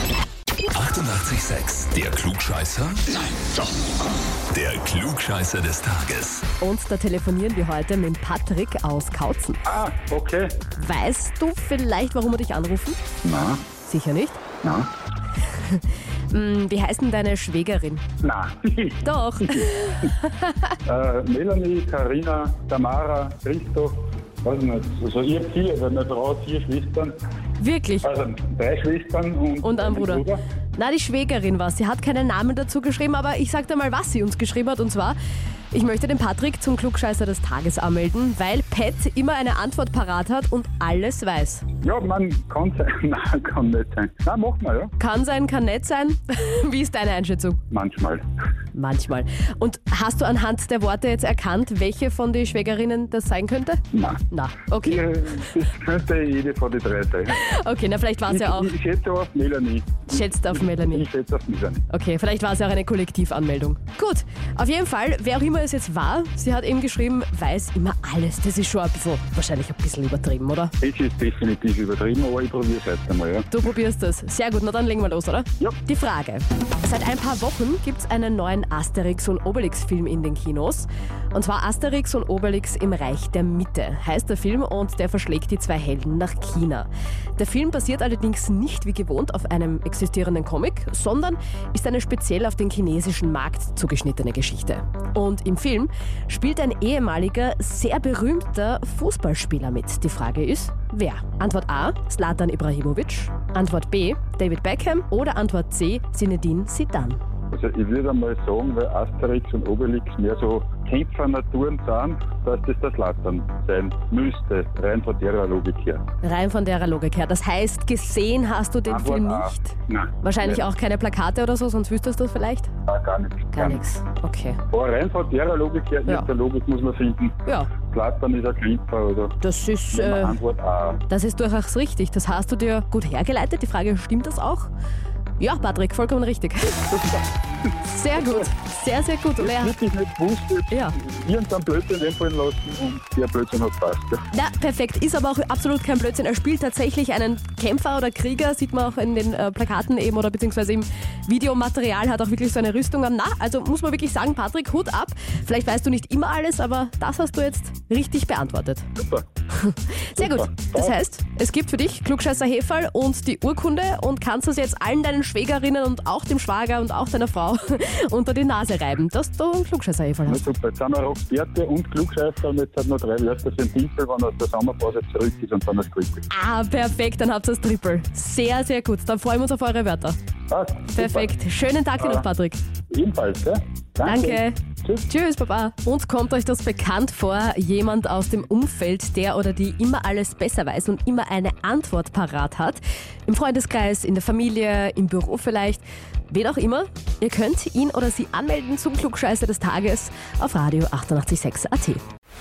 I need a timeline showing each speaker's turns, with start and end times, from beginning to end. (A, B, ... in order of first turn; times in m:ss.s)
0:00.7-0:03.5 A
0:04.5-0:06.4 A
0:06.6-0:09.6 B
0:09.6-0:10.5 C
0:10.7-0:13.0 B
0:13.2-0:13.6 C
0:13.8-0:14.4 B
0:14.6-0:14.9 C
0:15.5-0:18.0 B
0:18.2-0:19.7 C
0:19.0-0:20.7 B
0:20.8-0:27.1 C
0:27.6-0:28.1 B
0:28.0-0:30.4 C
0:29.6-0:35.1 B
0:35.7-0:41.7 B
0:41.8-0:44.9 C
0:45.0-0:47.6 B
0:47.7-0:48.2 C
0:48.7-0:55.0 B
0:53.9-0:54.2 C
0:54.8-0:57.5 C
0:57.3-0:58.7 B
0:58.3-1:01.8 C
1:00.1-1:01.1 B
1:01.9-1:10.7 B
1:10.8-1:13.5 C
1:13.5-1:47.2 B
1:47.5-1:56.0 C
1:56.2-2:02.7 B
1:58.9-2:00.7 C
2:02.9-2:03.8 C
2:03.5-2:04.6 B
2:04.7-2:09.4 C
2:07.4-2:07.7 B
2:09.4-2:10.4 B
2:09.9-2:11.0 C
2:11.1-2:14.7 B
2:15.4-2:17.0 B
2:17.8-2:19.8 B
2:19.4-2:24.2 C
2:20.7-2:21.0 B
2:24.3-2:38.9 B
2:39.0-2:39.2 C
2:39.5-2:50.4 B
2:40.2-2:41.0 C
2:50.3-2:56.2 C
2:56.3-3:00.2 B
3:00.5-3:01.3 C
3:00.9-3:02.6 B
3:02.0-3:02.2 C
3:02.9-3:05.0 C
3:04.0-3:22.0 B